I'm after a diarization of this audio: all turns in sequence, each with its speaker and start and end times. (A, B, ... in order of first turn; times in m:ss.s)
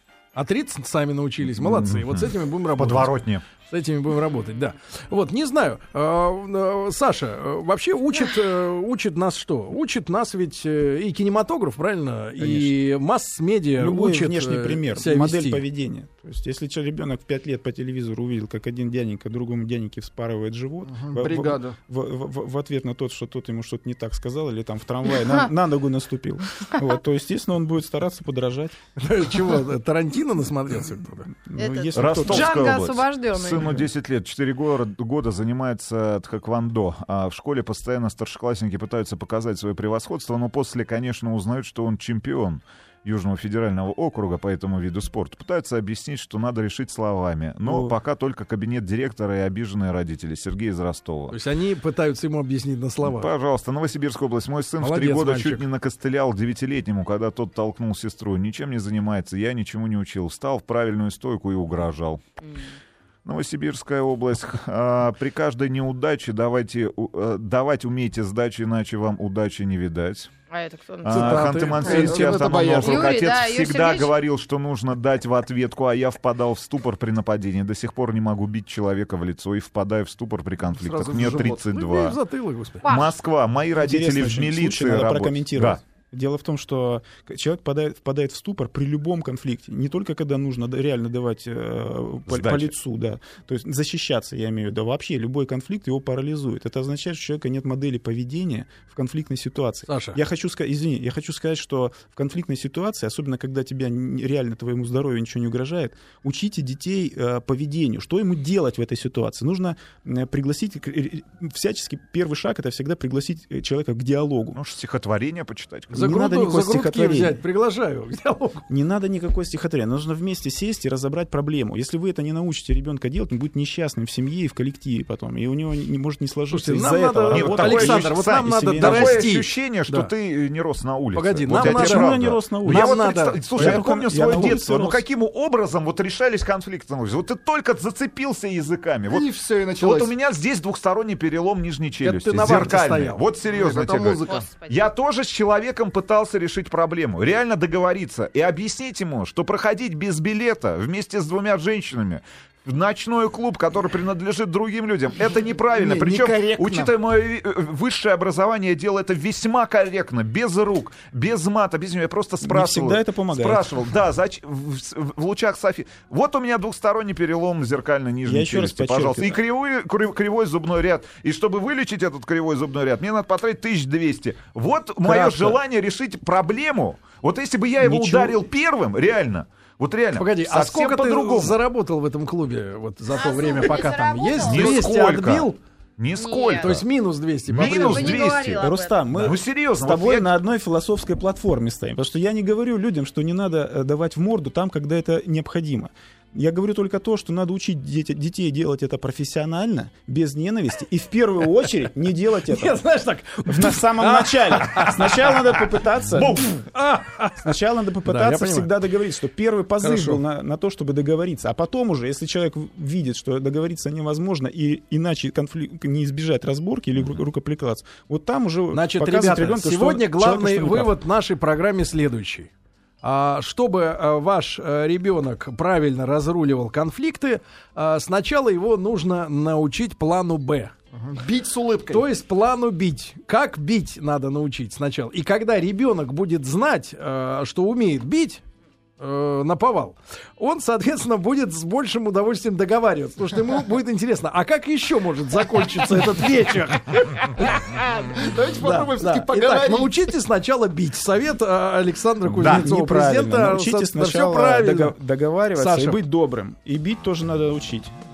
0:00.4-0:15.6 A
0:01.5-0:03.4 B
0:12.4-0:12.8 C
0:13.8-0:28.8 C
0:20.8-0:21.8 D
0:29.0-0:31.3 A
0:31.3-0:32.8 C
0:31.6-0:33.8 E
0:31.9-0:51.4 B
0:47.6-0:47.9 C
0:51.3-0:53.3 A
0:53.0-1:02.2 B
0:54.8-0:55.7 A
1:03.2-1:10.3 B
1:10.5-1:11.9 E
1:11.0-1:22.2 B
1:11.0-1:13.0 A
1:11.8-1:13.2 D
1:12.8-1:14.2 E
1:20.8-1:22.9 A
1:21.1-1:21.7 D
1:22.8-1:23.2 E
1:22.9-1:25.8 B
1:23.8-1:54.6 C
1:32.3-1:32.7 B
1:39.9-1:40.2 A
1:54.5-1:56.0 B
1:55.9-1:58.7 A
1:55.9-1:57.4 C
1:58.7-2:09.3 C
2:06.5-2:10.1 A
2:07.3-3:01.6 B
2:11.1-2:14.6 A
2:11.6-2:13.0 C
2:13.6-2:15.0 C
2:19.1-2:20.2 D
2:22.0-2:23.3 A
2:23.5-2:24.5 D
2:24.2-2:24.8 E
2:35.7-2:37.0 D
2:42.4-2:43.8 C
2:48.2-2:49.4 C
2:55.0-2:55.6 A
2:57.8-2:58.4 C
3:00.2-3:05.6 A
3:03.2-3:04.9 E
3:04.4-3:06.8 B
3:06.1-3:06.8 E
3:06.6-3:08.2 A
3:07.5-3:10.3 B
3:07.6-3:09.1 E
3:08.6-3:22.8 C
3:22.4-3:25.7 A
3:23.4-3:26.5 C
3:26.1-3:26.6 B
3:26.6-3:28.7 A
3:27.4-3:41.0 C
3:29.8-3:30.2 A
3:38.7-3:42.5 A
3:43.0-3:50.7 A
3:50.9-3:52.1 D
3:51.9-3:58.4 A
3:59.0-4:15.0 A
4:08.1-4:10.0 D
4:12.4-4:17.9 C
4:15.6-4:16.0 A